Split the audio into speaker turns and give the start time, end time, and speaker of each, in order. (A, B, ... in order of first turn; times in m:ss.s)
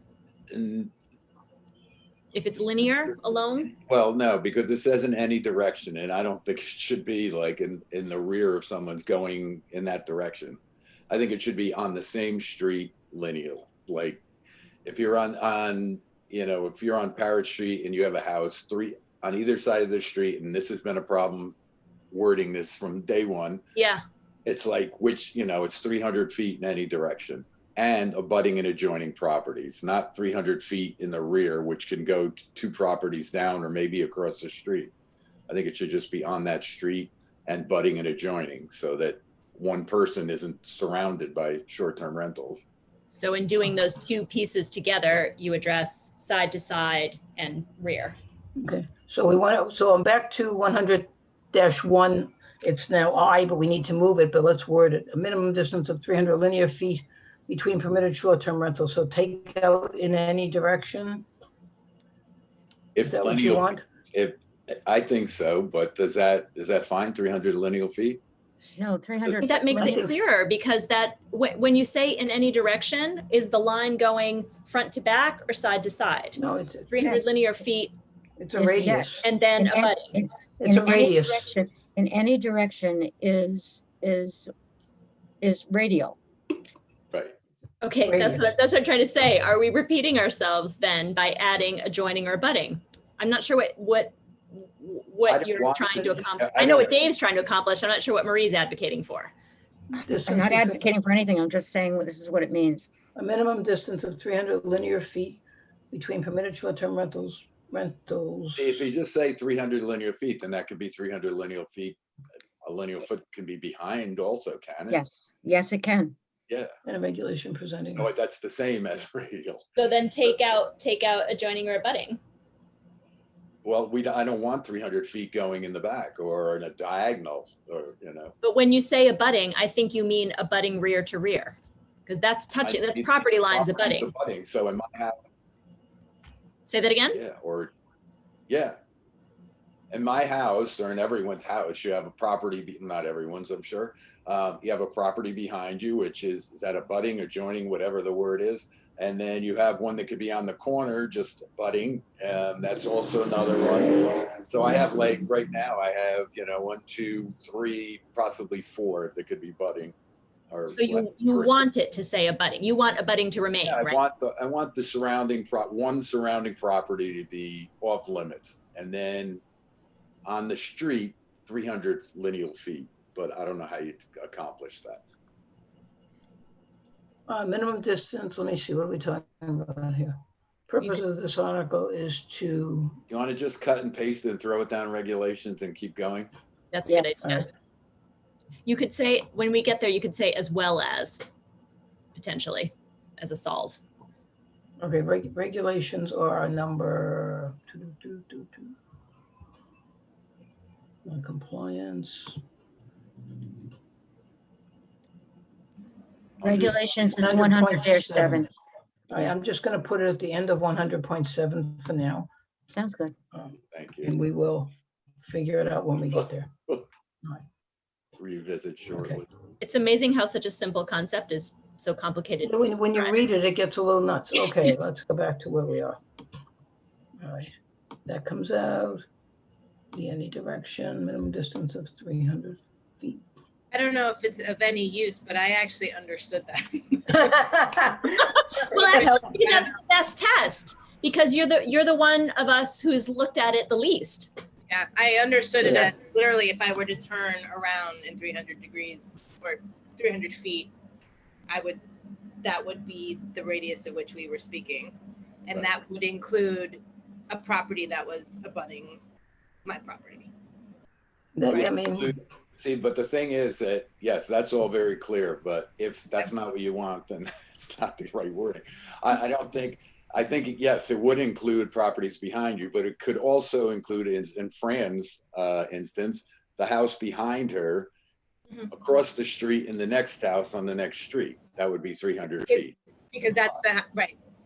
0:00.5-0:00.9 A
0:02.3-0:03.8 B
0:03.8-0:14.2 A
0:14.8-0:21.5 A
0:22.1-0:23.6 A
0:23.8-0:24.0 B
0:24.4-0:34.9 A
0:35.5-0:42.6 A
0:43.1-0:48.2 B
0:48.6-1:01.2 C
1:02.9-1:08.2 A
1:03.0-1:03.8 C
1:08.8-1:10.0 D
1:09.4-1:16.4 B
1:09.7-1:10.2 C
1:16.4-1:17.1 C
1:16.9-1:17.9 B
1:17.0-1:17.4 D
1:18.4-1:19.3 C
1:18.6-1:24.5 D
1:19.2-1:20.2 B
1:20.6-1:21.5 C
1:25.4-1:26.2 D
1:27.1-1:27.4 A
1:27.8-1:39.3 B
1:28.0-1:28.5 C
1:35.3-1:37.0 A
1:39.9-1:40.9 C
1:40.2-1:42.9 D
1:43.1-1:48.8 C
1:48.6-1:52.0 A
1:52.6-1:55.0 A
1:54.9-1:56.1 D
1:56.5-1:56.7 A
1:56.8-1:58.1 C
1:58.0-1:59.7 A
1:59.8-2:02.2 B
2:03.6-2:08.3 A
2:08.4-2:14.1 B
2:12.6-2:15.2 A
2:16.7-2:17.2 B
2:17.1-2:17.7 A
2:18.5-2:18.8 A
2:19.9-2:39.9 A
2:40.5-2:41.6 A
2:40.7-2:44.0 B
2:43.6-2:49.4 A
2:50.2-2:55.0 A
2:57.3-3:00.2 C
3:00.7-3:03.0 C
3:03.1-3:06.3 A
3:06.7-3:07.5 B
3:06.9-3:07.1 D
3:08.6-3:11.2 B
3:12.1-3:13.8 B
3:14.8-3:18.7 C
3:21.0-3:22.4 C
3:26.4-3:26.7 A
3:26.4-3:28.5 D
3:27.1-3:28.5 C
3:29.1-3:32.3 C
3:32.7-3:33.1 D
3:33.3-3:36.5 C
3:33.7-3:34.1 A
3:38.2-3:39.3 A
3:38.9-3:39.2 C
3:39.6-3:43.1 B
3:42.4-3:46.0 C
3:47.2-3:47.5 C
3:48.1-3:49.0 C
3:49.9-3:53.2 C
3:53.7-3:57.4 E
3:57.4-3:57.8 C
3:58.2-4:04.3 B
3:58.7-3:59.7 E
4:04.7-4:10.7 E
4:11.5-4:11.8 E
4:12.4-4:14.9 E
4:15.5-4:19.0 E
4:19.6-4:20.3 E
4:21.3-4:22.1 C
4:21.5-4:37.9 A
4:38.7-4:42.8 A
4:42.5-4:44.2 E